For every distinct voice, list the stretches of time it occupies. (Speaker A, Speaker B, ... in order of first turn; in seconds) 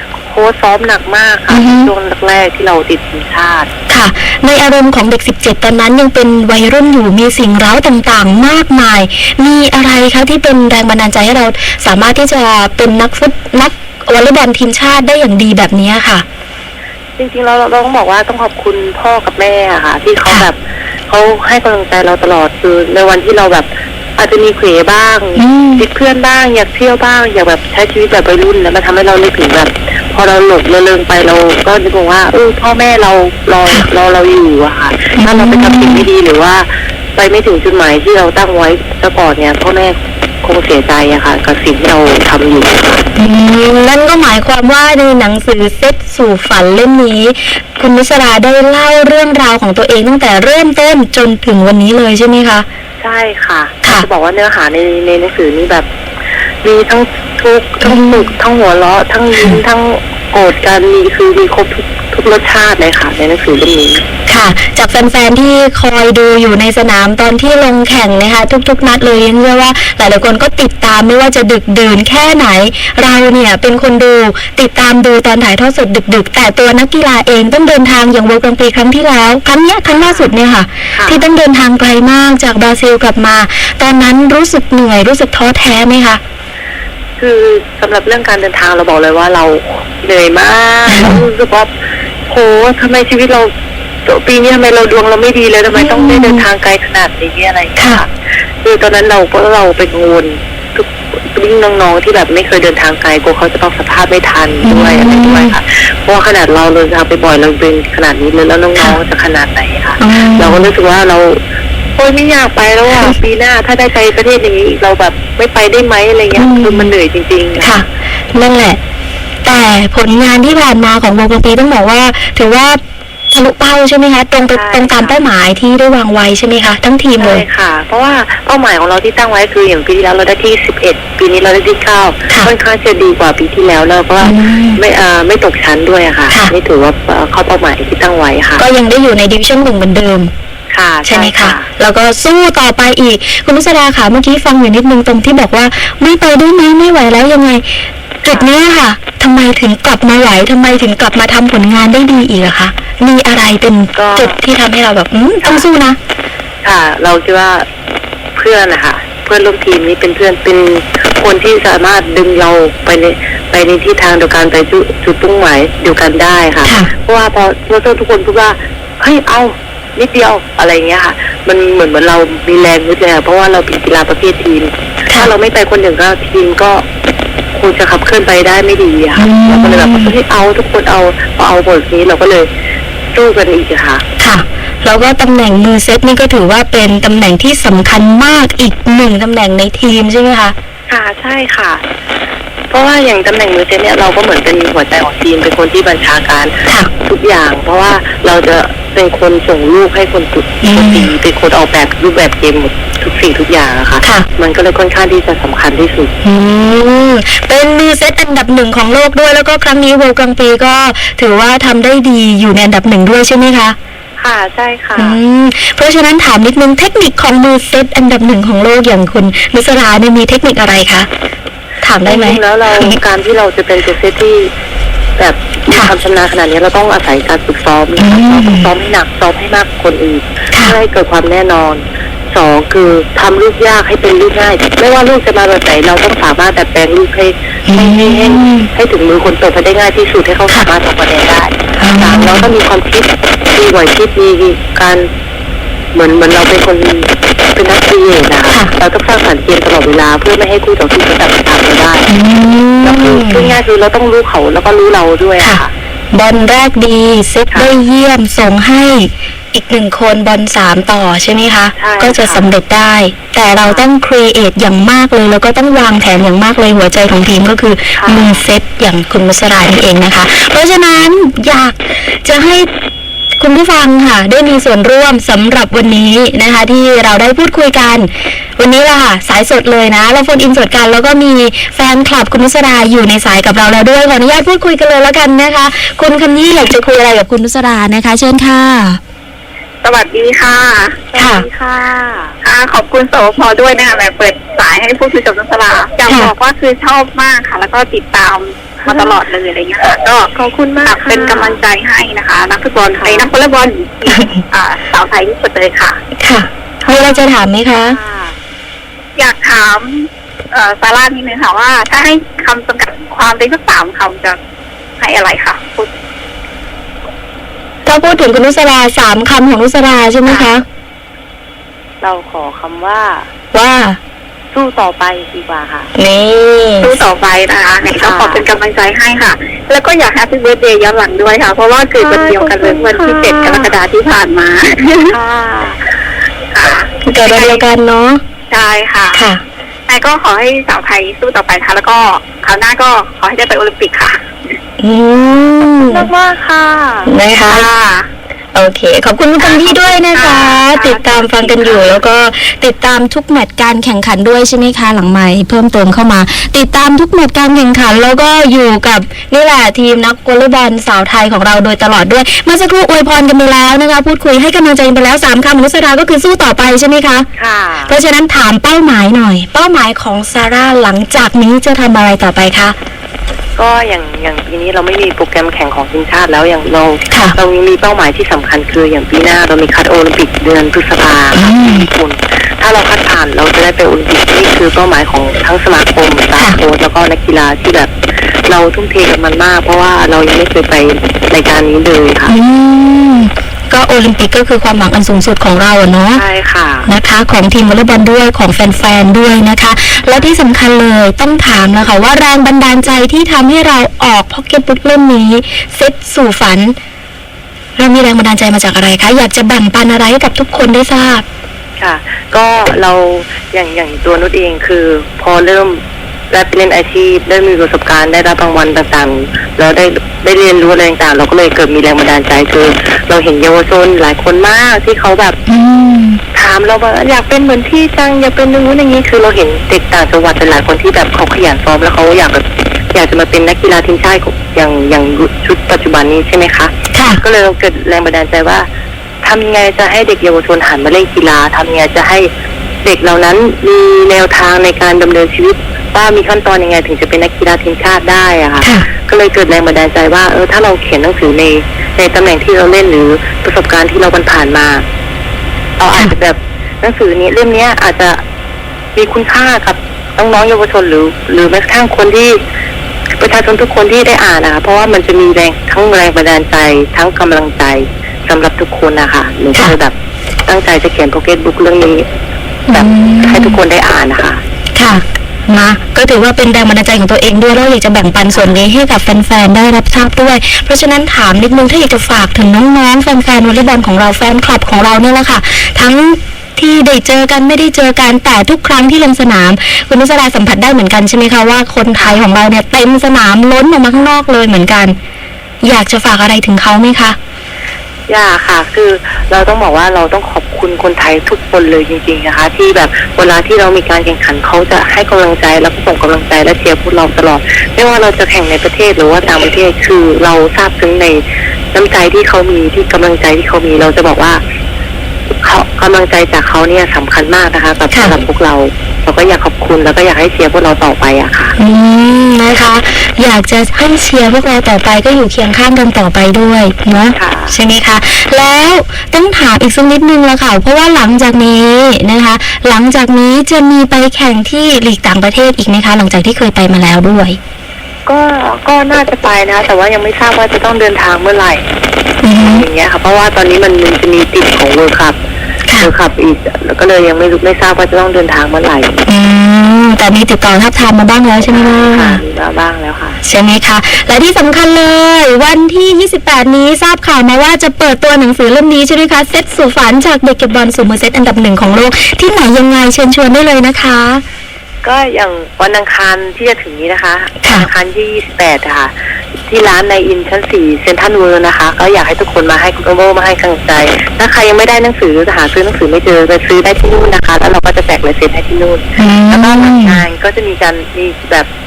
Speaker A: 0.2-3.7, 17.2-43.0, 53.0-55.9, 56.6-64.0, 80.0-80.3, 80.9-81.2, 87.2-91.7, 92.3-93.5, 94.0-98.1, 98.6-111.4, 112.0-117.8, 124.5-125.2, 127.2-138.6, 140.7-141.7, 148.2-148.5, 153.9-154.4, 155.4-155.7, 156.6-157.7, 158.3-176.8, 177.5-182.5, 183.1-184.0, 190.9-191.8, 192.7-206.1, 214.2-215.2, 222.0-224.5, 225.2-245.1, 245.9-252.1, 252.8-255.7, 261.8-262.5, 267.9-268.4, 291.1-292.4, 298.8-299.2, 300.3-301.6, 302.9-303.3, 306.8-307.2, 307.8-308.4, 322.0-323.3, 324.5-325.9, 327.9-328.4, 331.9-333.7, 335.1-335.9, 345.9-347.1, 367.3-367.9, 373.6-387.9, 388.4-392.3, 396.1-396.9, 400.1-400.3, 411.8-425.4, 426.3-438.7, 439.2-442.3, 442.8-454.8, 455.8-458.2, 458.9-462.4, 463.2-469.9, 470.5-472.1, 472.7-474.4, 478.3-478.6, 491.9-492.2, 498.1-514.4, 515.4-521.5, 527.1-527.5, 538.0-541.7, 542.3-545.2, 545.8-549.0, 551.5-553.2, 564.8-568.9, 569.5-581.5
Speaker B: 1.5-1.9, 3.9-16.2, 25.4-25.8, 35.1-36.0, 43.1-52.6, 57.8-58.3, 64.3-86.2, 90.9-91.2, 95.7-96.4, 97.8-98.0, 104.6-105.5, 110.0-110.7, 116.3-116.9, 117.6-118.8, 119.4-122.8, 123.3-127.4, 134.2-134.8, 138.6-140.3, 141.1-147.7, 148.2-156.0, 166.6-166.9, 179.2-180.1, 184.2-190.5, 200.6-201.1, 204.0-204.3, 206.2-213.8, 215.0-221.1, 221.8-223.0, 228.0-228.7, 237.7-238.7, 241.8-242.5, 252.1-253.6, 256.1-272.7, 273.4-289.0, 291.1-291.4, 306.2-308.0, 317.9-320.6, 323.5-324.0, 325.9-326.9, 337.1-338.2, 339.1-339.4, 344.8-346.1, 347.1-347.7, 348.5-367.3, 367.9-372.8, 377.1-377.4, 381.3-381.9, 392.3-396.2, 396.9-406.8, 407.8-411.2, 425.5-426.2, 436.9-437.2, 472.7-473.6, 474.7-495.0, 495.6-497.2, 521.6-537.4, 542.2-542.7, 549.1-552.2, 553.2-564.2, 567.4-567.7, 579.0-580.0
Speaker C: 289.8-290.9, 292.4-300.3, 300.8-306.0, 309.1-314.4, 315.0-315.9, 326.8-334.9, 336.5-337.6, 338.5-339.3, 339.9-344.2, 347.4-348.1, 349.4-352.0